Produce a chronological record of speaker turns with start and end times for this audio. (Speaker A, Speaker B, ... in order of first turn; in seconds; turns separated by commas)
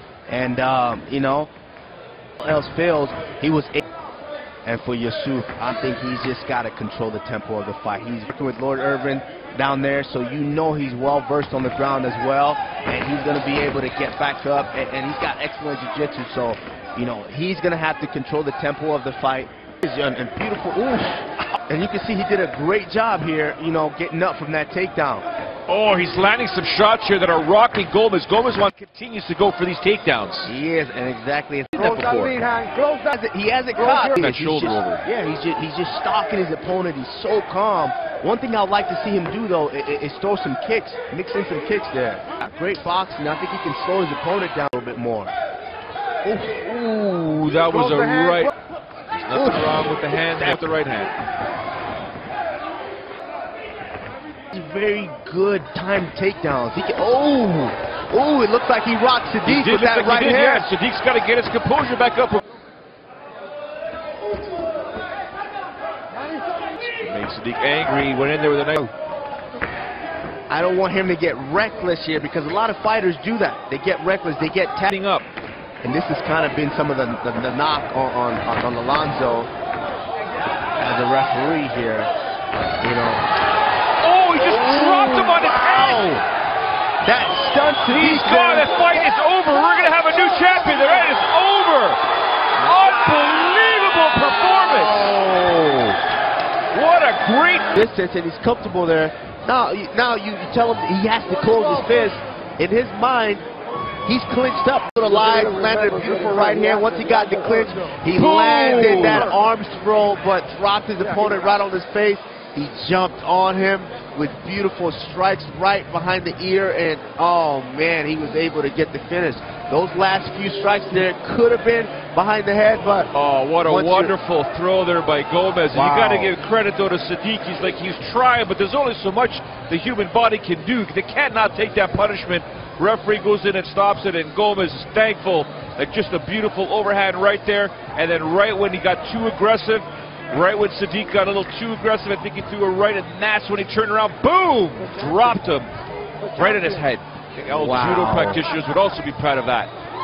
Speaker A: 0.3-1.5, Speaker A: 2.4-3.8, Speaker A: 4.6-25.2, Speaker B: 25.7-30.5, Speaker A: 30.4-32.5, Speaker C: 31.8-33.1, Speaker A: 33.0-45.3, Speaker C: 33.8-34.1, Speaker B: 34.1-35.0, Speaker B: 46.3-48.5, Speaker C: 47.9-48.4, Speaker B: 49.1-51.1, Speaker A: 49.3-50.6, Speaker A: 54.5-60.7, Speaker B: 59.4-62.4, Speaker B: 66.8-68.9, Speaker A: 70.5-74.9, Speaker B: 74.9-75.3, Speaker A: 75.8-79.5, Speaker A: 80.8-82.1, Speaker A: 82.8-83.2, Speaker B: 84.0-86.2, Speaker A: 84.4-86.2, Speaker A: 87.0-88.8, Speaker B: 87.9-92.0, Speaker B: 92.6-95.2, Speaker A: 94.7-96.0, Speaker B: 96.7-97.8, Speaker A: 97.8-103.4, Speaker A: 104.0-123.1, Speaker C: 105.7-106.8, Speaker B: 108.1-109.3, Speaker B: 123.1-145.7, Speaker A: 123.6-124.2, Speaker A: 125.7-126.3, Speaker B: 146.3-149.7, Speaker A: 147.5-148.4